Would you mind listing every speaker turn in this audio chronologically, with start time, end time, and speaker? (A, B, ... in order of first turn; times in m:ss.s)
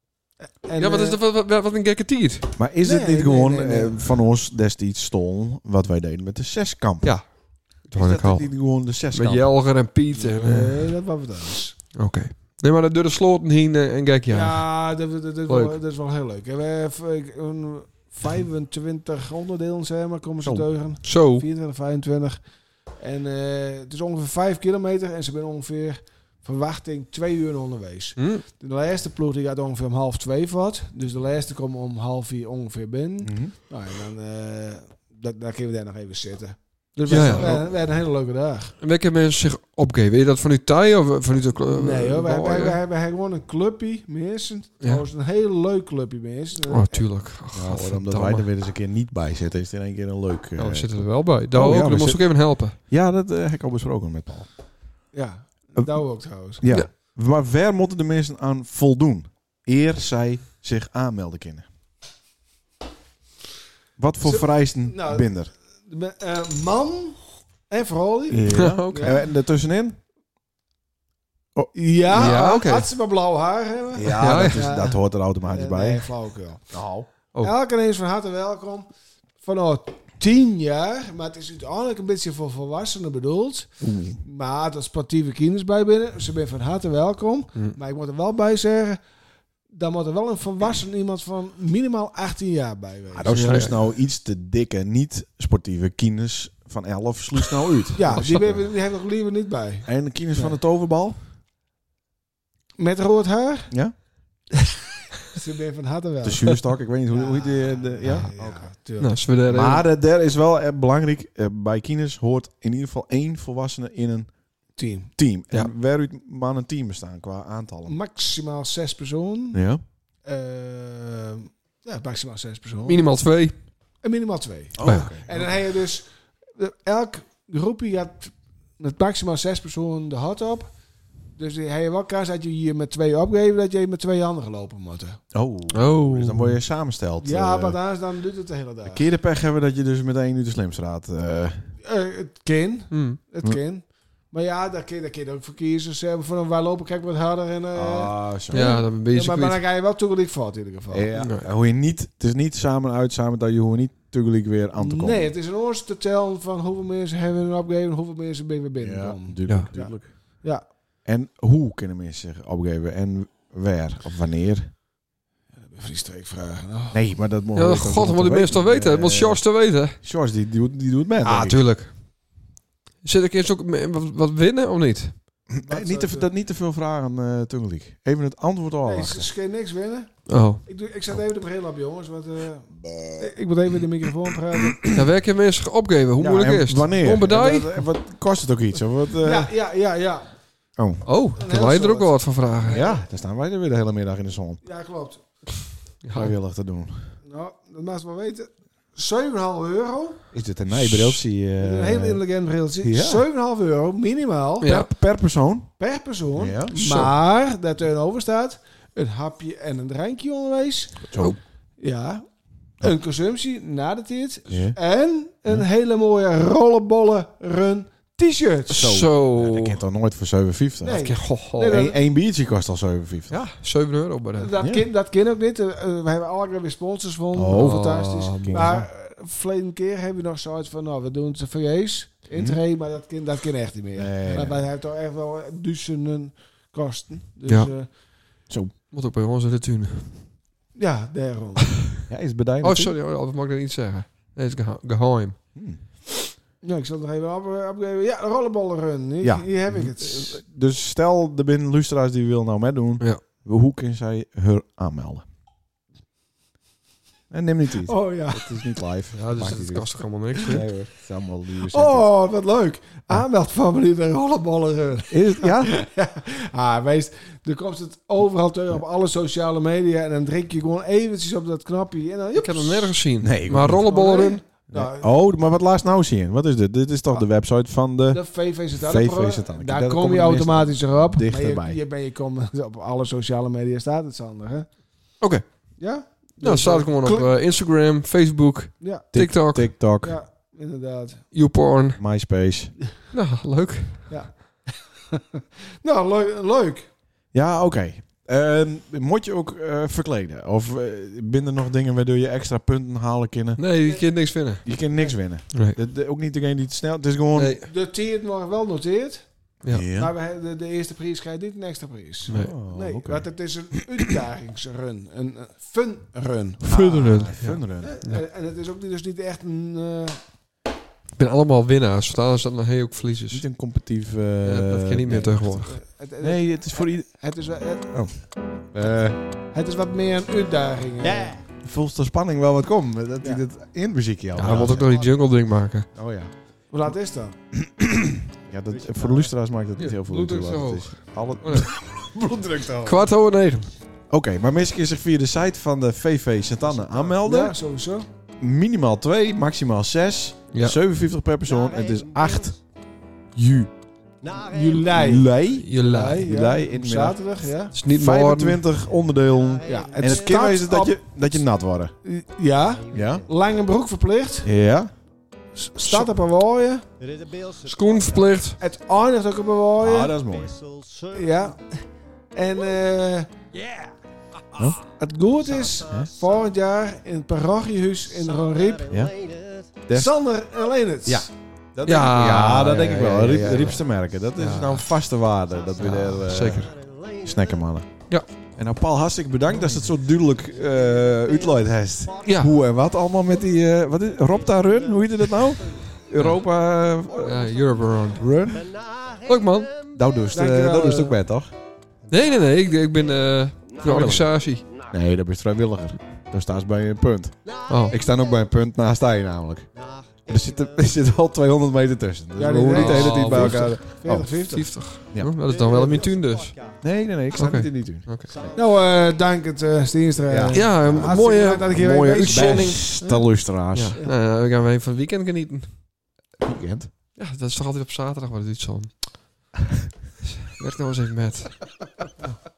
0:00.4-0:01.2 A
0:00.8-0:02.5 B
0:02.6-0:09.8 C
0:02.8-0:04.2 A
0:07.0-0:10.9 B
0:10.2-0:11.8 A
0:12.0-0:14.7 B
0:14.3-0:38.8 A
0:15.5-0:15.8 B
0:20.4-0:20.7 C
0:21.0-0:21.5 B
0:28.2-0:28.4 B
0:33.2-0:33.5 C
0:37.1-0:37.6 B
0:37.1-0:37.6 C
0:38.8-0:42.8 B
0:41.7-0:47.1 A
0:46.7-0:48.5 B
0:47.5-0:54.5 C
0:50.6-0:52.8 B
0:55.1-0:56.6 A
0:56.6-1:01.7 C
1:04.0-1:05.5 C
1:04.2-1:09.2 A
1:08.3-1:10.0 C
1:08.5-1:09.2 B
1:11.7-1:16.8 A
1:12.1-1:12.9 B
1:13.9-1:16.1 C
1:14.2-1:14.6 B
1:16.7-1:17.1 C
1:17.4-1:18.9 A
1:19.4-1:29.0 A
1:23.8-1:24.2 C
1:29.7-1:33.7 A
1:33.1-1:38.7 C
1:33.3-1:33.8 B
1:38.0-1:40.6 A
1:39.9-1:41.2 C
1:42.8-1:43.7 A
1:43.7-1:44.0 C
1:45.3-1:49.2 A
1:46.2-1:48.7 C
1:49.0-1:49.8 B
1:49.5-1:54.4 C
1:54.8-1:55.1 A
1:55.2-1:58.0 C
1:57.9-1:59.6 A
1:59.5-1:59.8 C
2:00.2-2:03.0 A
2:02.9-2:03.6 B
2:04.0-2:10.7 A
2:04.8-2:05.6 C
2:04.8-2:05.1 B
2:11.4-2:15.2 A
2:15.3-2:17.8 C
2:15.7-2:16.6 B
2:17.2-2:19.1 A
2:18.9-2:21.8 C
2:21.8-2:31.1 A
2:22.9-2:23.2 B
2:27.7-2:28.7 C
2:28.5-2:29.6 B
2:30.9-2:35.3 C
2:31.2-2:31.5 B
2:34.8-2:40.6 A
2:38.8-2:40.4 C
2:41.0-2:44.7 C
2:45.6-2:47.0 A
2:46.9-2:51.6 C
2:47.6-2:50.0 B
2:51.2-2:52.0 B
2:53.0-2:55.2 B
2:55.5-2:59.3 C
2:55.6-2:56.3 A
2:58.8-3:04.8 A
3:00.3-3:00.6 B
3:04.6-3:05.0 C
3:04.9-3:07.8 B
3:06.2-3:09.5 C
3:09.2-3:10.3 A
3:10.8-3:11.1 C
3:11.0-3:12.8 B
3:11.4-3:13.0 A
3:12.7-3:14.6 C
3:14.6-3:15.2 A
3:16.0-3:16.3 B
3:16.1-3:17.2 C
3:17.3-3:20.2 A
3:20.3-3:22.2 C
3:20.9-3:21.1 B
3:21.6-3:24.7 A
3:22.8-3:23.2 C
3:24.6-3:24.9 B
3:24.6-3:25.7 C
3:25.8-3:31.1 A
3:26.4-3:27.1 C
3:31.0-3:31.4 C
3:31.8-3:32.2 A
3:32.8-3:38.9 A
3:34.5-3:34.8 C
3:38.7-3:39.8 B
3:38.7-3:43.4 C
3:40.8-3:42.0 A
3:41.0-3:41.8 B
3:43.3-3:44.5 B
3:44.4-3:57.9 A
3:44.6-3:44.8 C
3:47.3-3:48.9 C
3:47.5-3:48.8 B
3:52.3-3:52.6 C
3:54.0-3:54.6 C
3:57.5-3:57.7 B
3:58.5-3:58.7 C
3:58.9-4:00.2 B
4:00.8-4:01.8 A
4:02.1-4:03.0 C
4:02.6-4:05.4 B
4:05.6-4:05.8 C
4:06.6-4:10.4 A
4:09.2-4:15.2 C
4:17.3-4:22.1 C
4:17.9-4:18.5 A
4:19.2-4:20.7 B
4:21.7-4:33.0 A
4:25.1-4:25.7 C
4:32.4-4:34.4 B
4:33.2-4:33.9 C
4:33.7-4:35.1 A
4:34.7-4:41.8 C
4:38.1-4:44.7 A
4:45.2-4:45.8 B
4:45.8-4:47.3 A
4:46.4-4:49.7 B
4:48.8-4:49.1 A
4:49.1-4:50.2 C
4:49.7-4:51.3 A
4:51.3-4:52.0 B
4:52.0-4:52.8 C
4:53.1-4:54.2 B
4:54.1-4:56.9 A
4:57.3-5:03.6 C
5:03.6-5:04.7 B
5:03.8-5:04.1 A
5:04.6-5:07.6 C
5:04.7-5:05.2 A
5:05.5-5:05.8 B
5:07.4-5:07.7 B
5:07.7-5:09.3 A
5:09.6-5:10.1 C
5:09.9-5:17.3 A
5:12.3-5:13.3 C
5:12.3-5:12.6 B
5:16.6-5:18.2 B
5:16.7-5:18.0 C
5:17.8-5:20.2 A
5:21.2-5:23.4 B
5:23.3-5:27.2 C
5:24.4-5:25.8 B
5:25.7-5:28.3 A
5:27.9-5:29.2 C
5:29.5-5:31.4 A
5:31.0-5:31.4 D
5:31.6-5:35.0 C
5:34.4-5:35.9 B
5:34.5-5:35.1 D
5:35.9-5:36.4 C
5:36.7-5:37.4 A
5:37.5-5:43.1 C
5:38.7-5:39.3 D
5:39.8-5:41.8 B
5:42.8-5:43.7 B
5:44.1-5:47.6 C
5:46.8-5:48.1 A
5:48.4-5:52.6 C
5:50.5-5:50.8 B
5:51.5-5:52.6 D
5:53.4-5:53.8 C
5:54.2-5:55.0 D
5:54.5-5:57.8 A
5:54.9-6:02.0 C
5:55.5-5:56.2 B
5:57.7-5:58.6 B
5:59.2-6:00.6 D
5:59.7-6:01.3 A
6:02.0-6:04.5 A
6:02.6-6:03.3 D
6:02.9-6:03.3 C
6:04.4-6:04.9 C
6:05.6-6:06.8 A
6:05.8-6:06.1 B
6:07.0-6:08.4 D
6:07.7-6:08.6 B
6:08.6-6:10.2 A
6:09.8-6:10.6 C
6:10.2-6:11.5 D
6:11.1-6:11.8 A
6:12.4-6:13.3 A
6:13.5-6:13.9 D
6:14.6-6:14.8 C
6:15.0-6:18.9 A
6:15.4-6:16.5 D
6:18.1-6:19.8 D
6:19.8-6:20.1 C
6:19.9-6:21.3 A
6:21.0-6:26.7 C
6:21.8-6:23.8 B
6:23.1-6:23.7 A
6:24.4-6:24.8 B
6:25.5-6:27.7 D
6:25.8-6:26.7 B
6:27.2-6:27.9 C
6:28.6-6:37.5 C
6:30.3-6:32.7 D
6:32.2-6:32.5 B
6:34.0-6:36.1 D
6:36.2-6:36.4 B
6:37.1-6:40.4 D
6:37.2-6:38.3 B
6:38.1-6:38.6 C
6:39.3-6:39.7 B
6:40.0-6:41.5 C
6:40.3-6:41.2 A
6:42.1-6:44.6 B
6:42.1-6:42.5 D
6:43.7-6:44.9 D
6:43.8-6:44.3 C
6:44.9-6:55.3 C
6:47.5-6:48.5 D
6:47.7-6:48.0 B
6:49.8-6:51.1 D
6:52.4-6:54.7 A
6:52.7-6:56.5 B
6:55.4-6:56.9 D
6:56.8-6:58.6 C
6:57.3-6:58.3 B
6:58.3-6:59.2 D
6:58.6-7:04.1 A
7:00.3-7:04.0 C
7:00.5-7:03.0 B
7:03.7-7:05.8 B
7:06.4-7:06.9 C
7:07.2-7:09.4 B
7:10.2-7:12.4 B